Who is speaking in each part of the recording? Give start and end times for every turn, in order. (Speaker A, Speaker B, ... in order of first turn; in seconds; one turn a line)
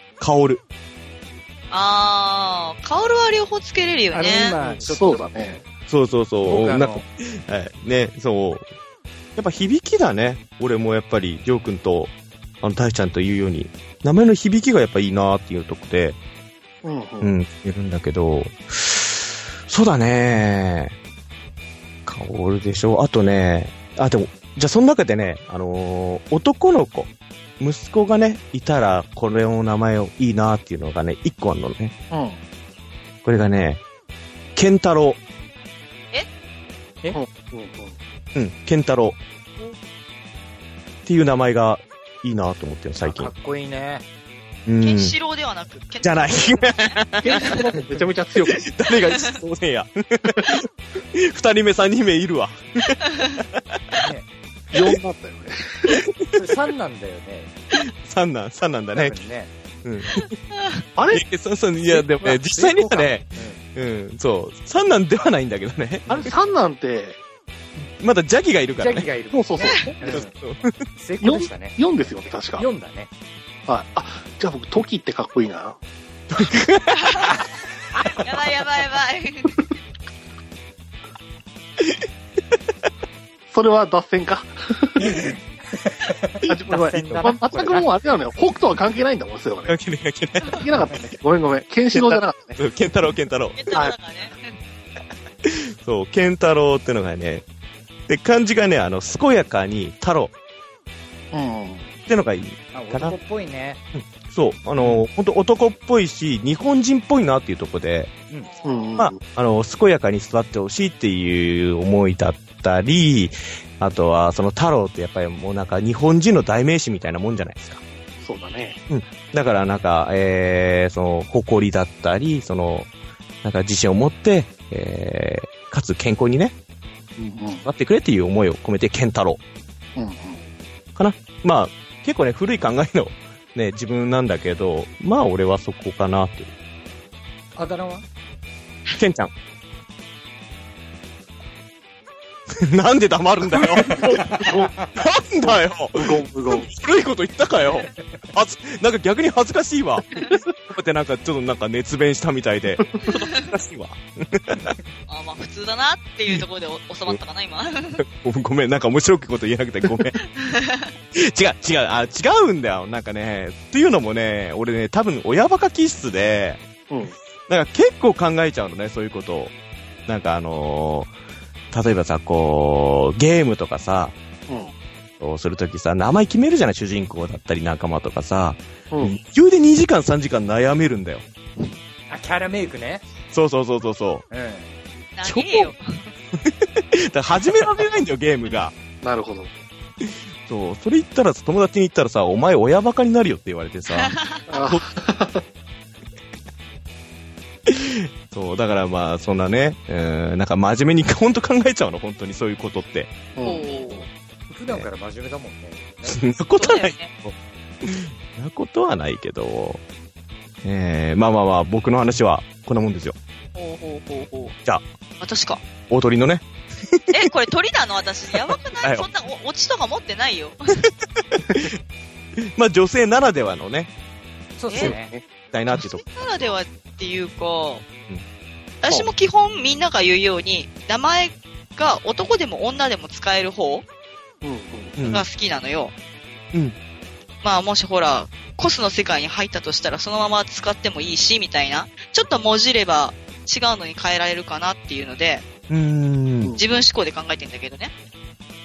Speaker A: 0.2-0.6
Speaker B: 1.7-4.6
Speaker C: 4.1-5.6
Speaker D: 4.9-5.6
Speaker A: 5.9-8.7
Speaker C: 6.4-7.0
Speaker A: 9.3-16.2
Speaker D: 16.8-17.3
Speaker A: 17.2-20.9
Speaker A: 22.1-31.9
Speaker D: 32.1-32.4
Speaker A: 33.2-33.8
Speaker A: 34.5-35.2
Speaker D: 37.1-38.0
Speaker A: 38.3-39.2
Speaker A: 41.0-43.3
Speaker C: 43.0-44.0
Speaker A: 44.6-45.1
Speaker B: 44.8-47.6
Speaker A: 46.0-47.6
Speaker D: 47.2-48.6
Speaker A: 48.5-54.0
Speaker C: 53.9-54.3
Speaker D: 54.7-56.0
Speaker A: 55.9-56.4
Speaker C: 56.3-57.5
Speaker A: 58.0-59.2
Speaker C: 58.9-59.5
Speaker A: 59.8-60.3
Speaker B: 60.2-60.8
Speaker D: 61.0-61.2
Speaker A: 61.1-66.3
Speaker C: 62.2-63.6
Speaker D: 66.1-67.2
Speaker A: 68.0-69.1
Speaker C: 68.8-70.3
Speaker D: 69.3-70.2
Speaker A: 70.0-70.8
Speaker C: 70.9-71.8
Speaker D: 71.2-72.7
Speaker C: 72.5-73.1
Speaker D: 73.7-75.8
Speaker A: 76.3-77.2
Speaker B: 76.9-77.4
Speaker B: 78.2-79.6
Speaker D: 83.5-85.2
Speaker C: 85.0-87.9
Speaker D: 86.4-89.8
Speaker A: 89.7-90.9
Speaker D: 90.5-92.6
Speaker A: 91.9-93.6
Speaker B: 93.5-94.5
Speaker A: 95.4-97.4
Speaker A: 98.1-100.3
Speaker D: 101.3-101.9
Speaker A: 102.1-103.1
Speaker C: 102.7-103.8
Speaker A: 103.9-108.1
Speaker B: 108.4-108.9
Speaker D: 108.6-109.2
Speaker A: 109.0-117.8
Speaker D: 118.2-118.8
Speaker A: 118.9-122.9
Speaker A: 123.4-126.5
Speaker D: 127.2-127.7
Speaker A: 127.6-129.4
Speaker D: 129.9-130.4
Speaker A: 130.9-136.5
Speaker C: 137.6-138.0
Speaker A: 138.9-139.3
Speaker A: 142.5-154.7
Speaker D: 143.8-144.7
Speaker C: 143.9-144.9
Speaker D: 146.0-146.7
Speaker D: 152.8-153.2
Speaker B: 153.1-153.4
Speaker B: 155.1-158.0
Speaker A: 158.0-160.2
Speaker B: 160.2-160.9
Speaker A: 161.1-166.6
Speaker D: 166.9-167.1
Speaker A: 167.5-169.5
Speaker A: 170.1-171.1
Speaker A: 171.7-174.2
Speaker A: 175.2-181.2
Speaker D: 178.9-179.2
Speaker C: 182.1-183.0
Speaker A: 183.3-184.2
Speaker C: 184.3-184.7
Speaker B: 185.2-186.1
Speaker A: 185.2-185.7
Speaker A: 186.3-188.7
Speaker D: 189.0-189.5
Speaker A: 190.4-194.8
Speaker B: 193.9-194.4
Speaker D: 194.5-195.4
Speaker A: 197.7-203.1
Speaker D: 203.3-204.1
Speaker B: 203.4-204.1
Speaker C: 204.5-206.2
Speaker A: 206.1-209.8
Speaker B: 206.6-207.1
Speaker A: 210.6-213.2
Speaker B: 213.5-214.5
Speaker B: 215.2-215.6
Speaker A: 215.9-217.3
Speaker B: 217.1-220.7
Speaker A: 221.3-221.7
Speaker A: 222.5-223.9
Speaker C: 224.6-225.1
Speaker B: 224.7-224.9
Speaker D: 224.8-225.2
Speaker A: 225.5-226.0
Speaker B: 225.7-227.8
Speaker B: 228.8-233.8
Speaker D: 234.4-235.0
Speaker A: 235.0-235.2
Speaker B: 235.0-235.9
Speaker B: 237.4-245.4
Speaker A: 245.7-246.6
Speaker B: 246.6-247.9